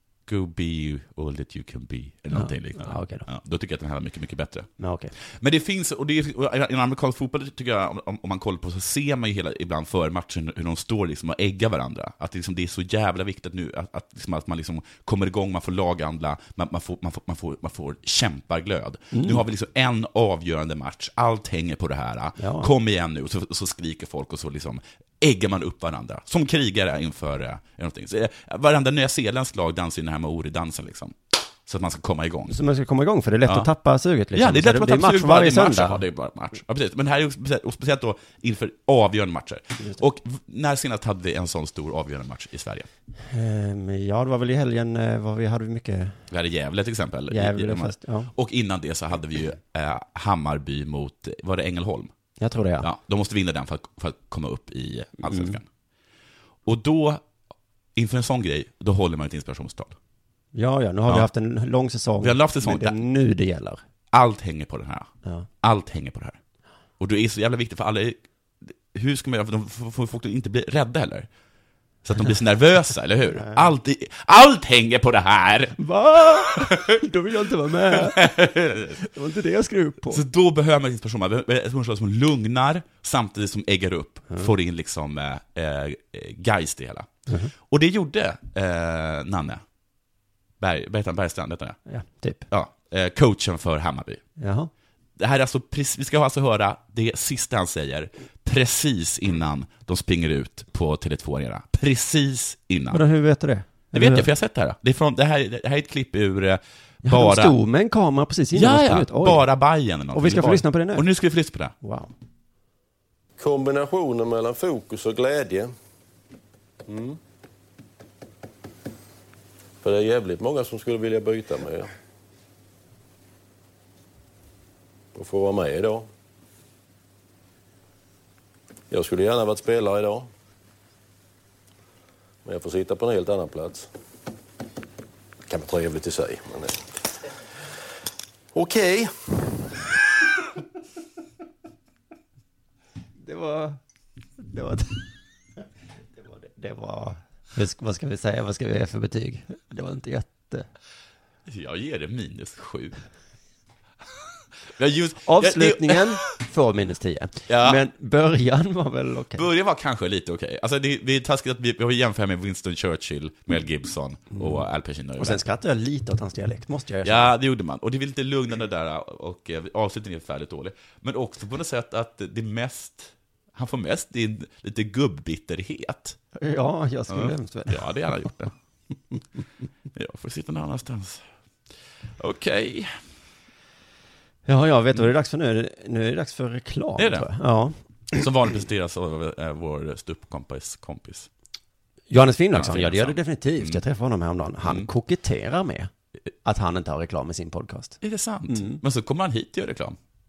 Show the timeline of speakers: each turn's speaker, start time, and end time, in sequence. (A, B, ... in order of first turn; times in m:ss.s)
0:00.2-0:04.7 A
0:02.3-0:03.2 B
0:04.8-0:05.1 B
0:05.3-0:32.6 A
0:19.1-0:19.4 B
0:22.4-0:22.7 B
0:32.5-0:36.0 B
0:34.3-0:42.9 A
0:43.2-0:46.2 B
0:46.3-0:52.1 A
0:47.3-0:48.3 B
0:52.4-0:52.9 B
0:52.8-0:55.6 A
0:55.2-0:55.6 B
0:56.6-0:57.2 A
0:58.0-1:00.0 A
1:00.6-1:03.8 B
1:02.2-1:03.0 A
1:04.1-1:05.1 A
1:05.6-1:06.4 A
1:07.0-1:11.3 A
1:12.0-1:17.0 A
1:13.4-1:13.7 B
1:15.8-1:20.2 B
1:17.9-1:19.0 A
1:20.1-1:27.1 A
1:27.7-1:29.6 A
1:30.6-1:31.8 A
1:31.9-1:32.5 B
1:32.5-1:34.2 A
1:34.4-1:34.7 B
1:35.2-1:43.0 A
1:42.9-1:44.3 B
1:43.9-1:47.6 A
1:47.0-1:49.5 B
1:48.5-1:51.7 A
1:50.1-1:51.1 B
1:51.8-1:52.1 B
1:53.4-1:55.7 C
1:56.9-1:57.2 C
1:59.8-2:01.9 C
2:05.2-2:06.1 C
2:08.9-2:10.3 C
2:12.4-2:13.9 C
2:15.5-2:16.9 C
2:18.5-2:19.6 C
2:23.2-2:23.8 B
2:24.4-2:25.1 B
2:26.4-2:30.7 B
2:31.5-2:33.0 A
2:34.8-2:36.2 A
2:35.2-2:39.4 B
2:37.5-2:37.8 A
2:39.4-2:45.4 A
2:44.4-2:44.6 B
2:45.2-2:47.3 B
2:47.0-2:56.2 A
2:56.4-2:57.8 B
2:57.1-2:58.5 A
2:59.9-3:01.2 A
3:02.2-3:02.9 A
3:04.5-3:08.2 B
3:07.0-3:07.3 A
3:08.1-3:11.3 A
3:12.1-3:15.9 B
3:12.5-3:13.8 A
3:16.4-3:18.8 B
3:18.0-3:20.0 A